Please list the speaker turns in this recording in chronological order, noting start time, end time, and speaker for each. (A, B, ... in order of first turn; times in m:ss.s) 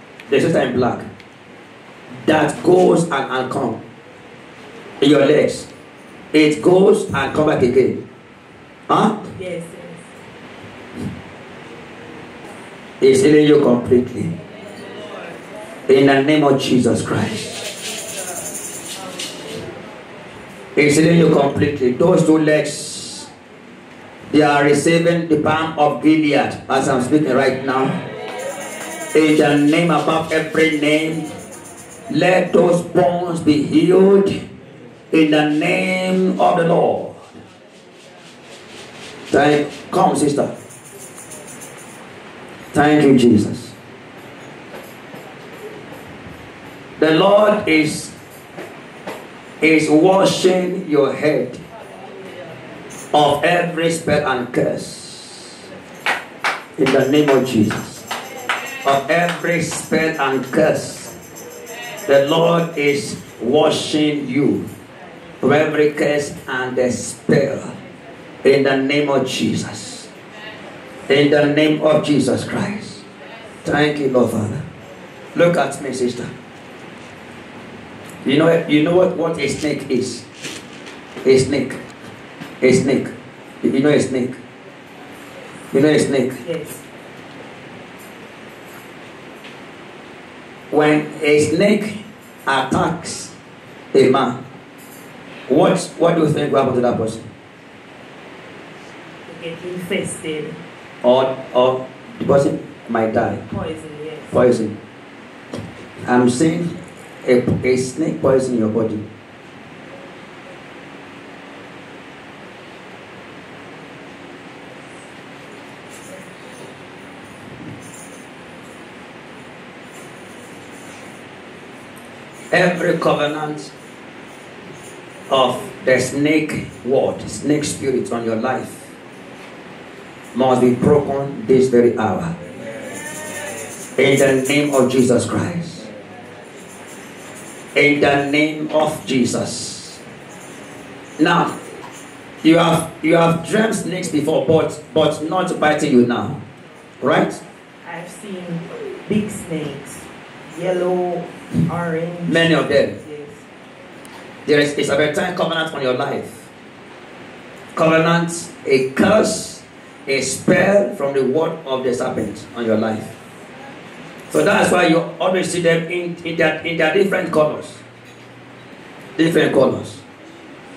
0:00.3-0:01.1 A
0:02.2-0:03.8 A
0:05.0-0:05.7 A
0:06.3-0:08.0 A
0:08.9-0:09.3 A
0:09.3-0:10.1 B
0:13.0-0:14.3 A
0:15.9-0:17.6 A
0:20.7-0:23.3 A
0:24.3-0:28.0 A
0:29.1-0:31.3 A
0:32.1-0:34.4 A
0:35.1-0:37.2 A
0:39.3-0:40.5 A
0:42.7-0:43.7 A
0:47.0-0:48.1 A
0:49.6-0:51.6 A
0:53.1-0:55.6 A
0:56.8-0:58.0 A
0:58.8-1:01.1 A
1:02.1-1:04.7 A
1:05.4-1:07.7 A
1:08.4-1:10.1 A
1:11.1-1:13.0 A
1:13.6-1:14.6 A
1:15.3-1:16.3 A
1:18.2-1:20.2 A
1:21.2-1:21.8 A
1:22.6-1:24.4 A
1:25.7-1:26.4 A
1:26.4-1:26.8 B
1:30.7-1:33.3 A
1:33.9-1:34.4 A
1:35.5-1:37.3 A
1:39.3-1:40.6 B
1:41.0-1:43.4 A
1:43.4-1:44.3 B
1:44.3-1:44.7 A
1:46.0-1:46.7 A
1:47.2-1:49.0 A
2:02.5-2:03.7 A
2:05.3-2:08.9 A
2:10.3-2:12.3 A
2:14.0-2:15.9 A
2:17.7-2:20.0 A
2:21.2-2:21.5 A
2:22.4-2:26.4 A
2:27.0-2:27.4 A
2:27.8-2:33.4 B
2:32.3-2:33.0 A
2:34.4-2:36.5 A
2:37.7-2:43.1 A
2:44.3-2:47.8 A
2:49.2-2:50.0 A